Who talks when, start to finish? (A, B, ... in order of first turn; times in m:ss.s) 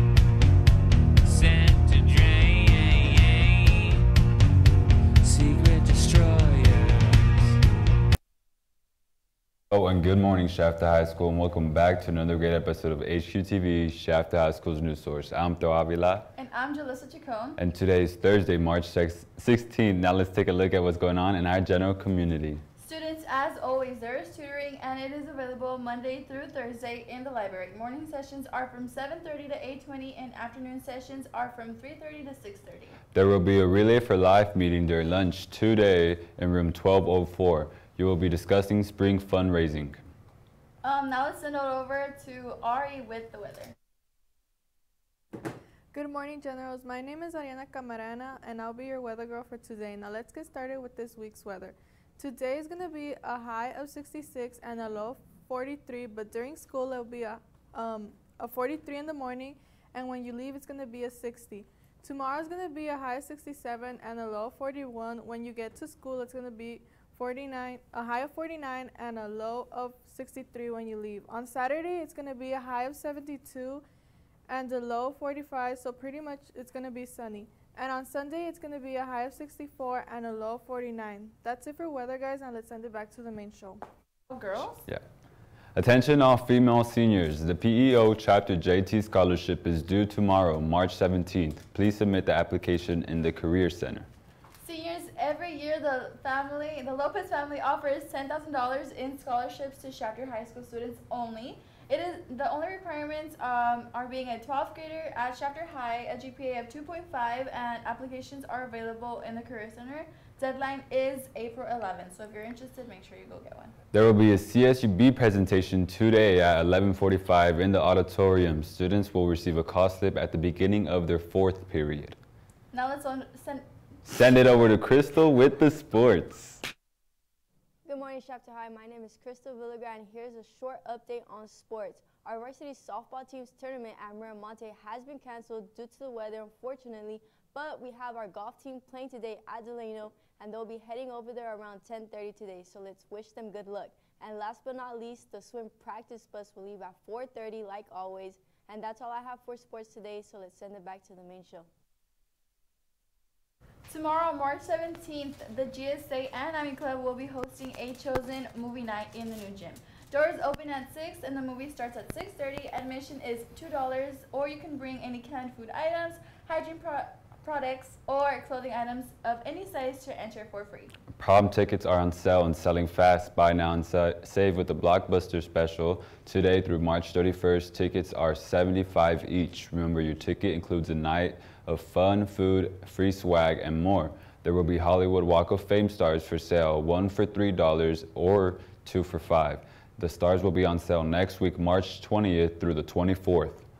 0:01.2-0:04.0 A
0:05.2-0:07.5 A
0:09.7-0:16.3 B
0:16.3-0:17.6 C
0:17.6-0:22.6 B
0:22.8-0:33.0 C
0:33.1-0:40.0 B
0:40.8-0:43.7 C
0:45.9-1:13.8 D
1:14.5-1:23.8 D
1:24.3-1:24.8 C
1:25.7-1:34.1 B
1:34.6-1:53.7 C
1:53.9-2:02.2 B
2:02.7-2:03.6 C
2:04.1-2:06.6 B
2:07.8-2:31.7 E
2:33.9-2:50.9 C
2:51.2-3:13.6 B